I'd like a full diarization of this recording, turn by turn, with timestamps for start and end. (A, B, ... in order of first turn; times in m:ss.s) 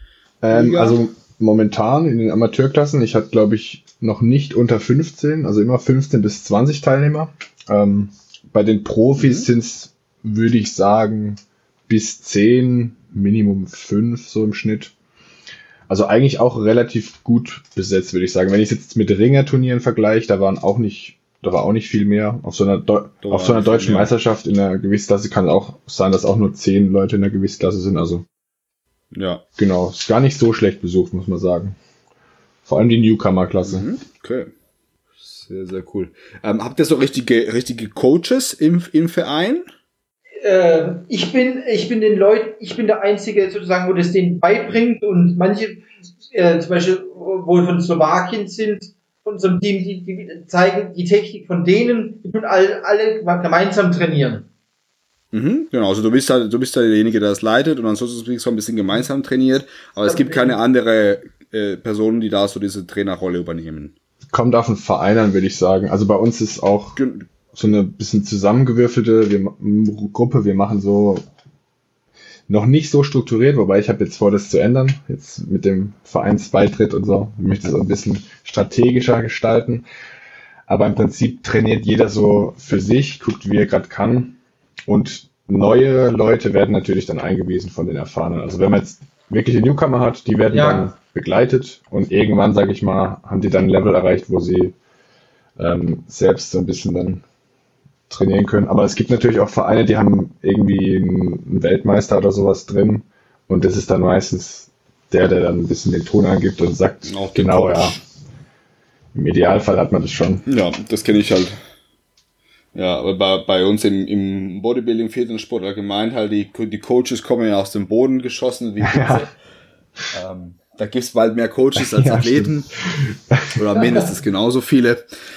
0:00.4-0:14.9 A
0:00.5-0:01.0 B
0:09.2-0:09.5 B
0:15.9-0:28.2 A
0:23.2-0:24.1 B
0:29.1-0:29.4 B
0:29.6-0:31.8 A
0:32.6-0:33.9 A
0:33.6-0:34.5 B
0:35.2-0:39.6 B
0:40.4-0:54.5 C
0:55.3-1:03.9 B
1:00.0-1:00.6 C
1:04.3-1:07.0 A
1:07.0-1:07.2 B
1:07.5-1:11.2 A
1:12.5-1:19.8 A
1:20.7-1:34.7 A
1:30.5-1:30.9 C
1:35.6-1:37.2 A
1:38.1-1:48.0 A
1:47.1-1:48.0 B
1:49.1-1:50.4 A
1:50.4-1:51.6 B
1:52.7-1:59.3 B
1:58.8-1:59.2 A
2:00.1-2:02.7 B
2:01.8-2:03.6 A
2:03.5-2:05.0 B